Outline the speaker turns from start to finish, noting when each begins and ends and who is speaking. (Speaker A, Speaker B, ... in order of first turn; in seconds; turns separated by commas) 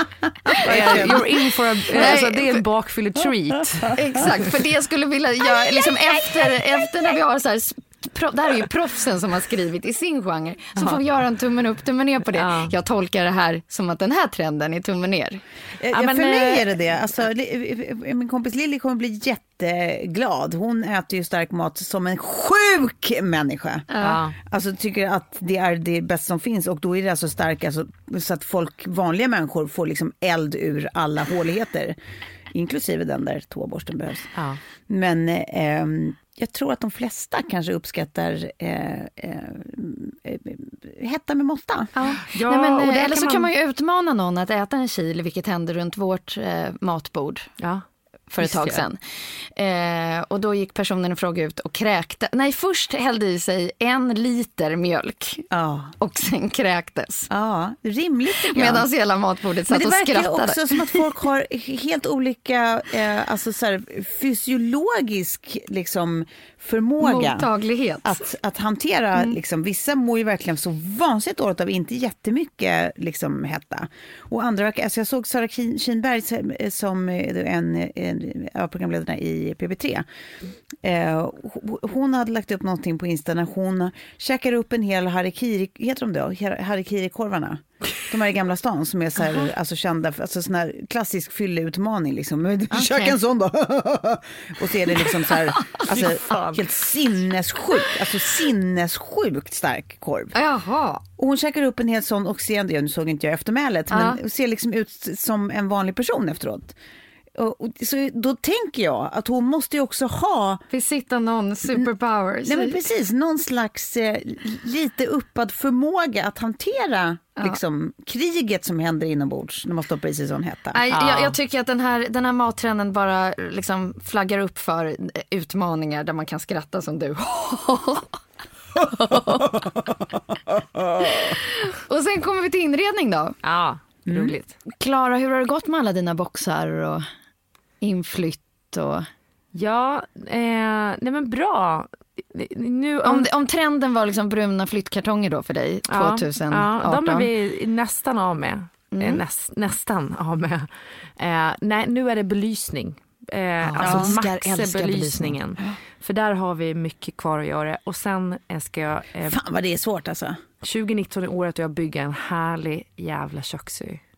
Speaker A: 0.5-1.3, Speaker B: 0.5-1.2, Speaker C: 0.6-4.0, Speaker B: 1.9-2.6, Speaker B: 3.9-15.4, Speaker A: 5.4-7.2, Speaker C: 12.3-12.7, Speaker A: 15.8-32.0, Speaker C: 15.9-16.6, Speaker B: 16.1-16.4, Speaker B: 23.9-24.2, Speaker C: 24.0-24.4, Speaker A: 32.5-34.3, Speaker C: 34.4-34.6, Speaker A: 34.9-41.9, Speaker B: 42.0-47.5, Speaker C: 42.1-43.5, Speaker C: 47.6-47.9, Speaker B: 48.3-55.5, Speaker C: 48.4-48.8, Speaker A: 55.5-55.9, Speaker B: 56.0-57.3, Speaker A: 57.3-58.9, Speaker B: 58.3-61.0, Speaker A: 59.7-67.5, Speaker B: 67.0-68.2, Speaker A: 68.0-80.0, Speaker A: 80.8-100.4, Speaker B: 92.7-93.2, Speaker B: 95.1-96.6, Speaker B: 100.3-101.0, Speaker A: 101.2-106.8, Speaker B: 103.9-104.2, Speaker A: 107.3-110.6, Speaker B: 110.7-112.8, Speaker A: 112.5-120.8, Speaker B: 120.7-128.2, Speaker C: 120.9-121.3, Speaker B: 128.8-129.7, Speaker B: 130.9-133.4, Speaker C: 133.4-134.6, Speaker A: 134.1-134.3, Speaker B: 134.8-137.1, Speaker B: 137.8-139.1, Speaker C: 139.5-143.3, Speaker B: 143.0-147.3, Speaker C: 145.9-159.4, Speaker B: 148.9-149.2, Speaker B: 153.6-155.4, Speaker A: 153.8-154.1, Speaker A: 159.3-160.4, Speaker C: 160.6-164.0